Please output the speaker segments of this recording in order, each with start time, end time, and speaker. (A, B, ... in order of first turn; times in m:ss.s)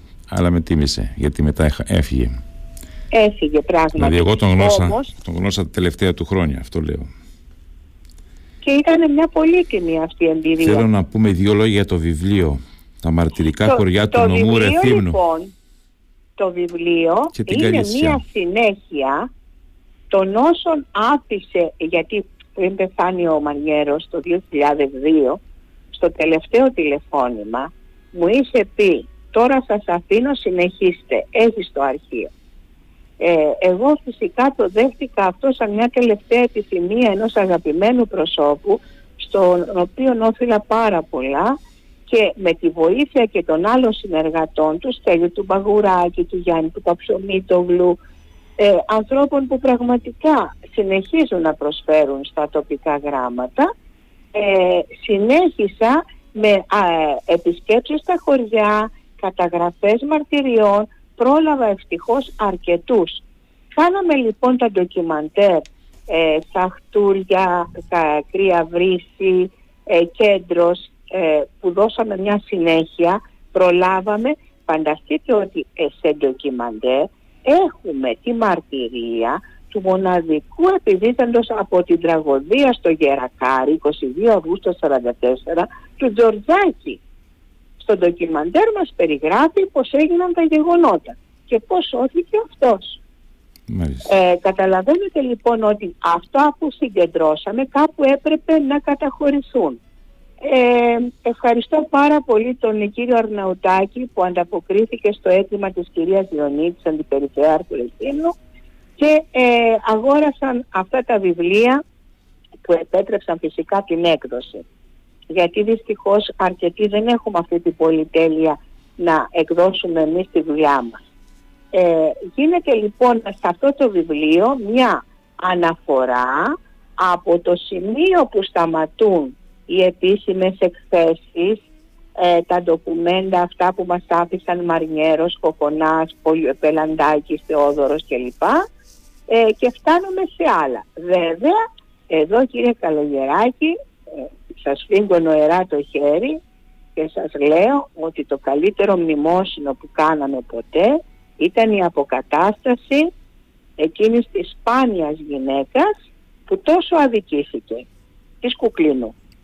0:00.3-0:02.4 A
0:03.1-0:05.1 B
0:04.0-0:07.1 A
0:08.6-0:10.8 B
0:10.6-0:15.2 A
0:13.6-0:15.5 B
0:16.4-0:19.3 B
0:17.4-0:18.2 A
0:20.1-0:25.4 B
0:25.9-0:32.3 B
0:33.2-0:41.6 B
0:42.1-0:48.0 B
0:48.6-0:53.7 B
0:54.3-1:03.2 B
1:03.8-1:27.0 B
1:27.8-1:33.0 B
1:33.7-1:34.1 A
1:34.1-1:39.8 B
1:40.4-1:48.4 B
1:49.0-1:51.8 B
1:52.6-1:54.6 B
1:55.3-2:01.0 B
2:01.7-2:11.6 B
2:12.2-2:18.7 B
2:19.3-2:26.4 B
2:27.0-2:33.1 B
2:33.8-2:35.9 B
2:36.5-2:37.9 B
2:38.4-2:39.1 B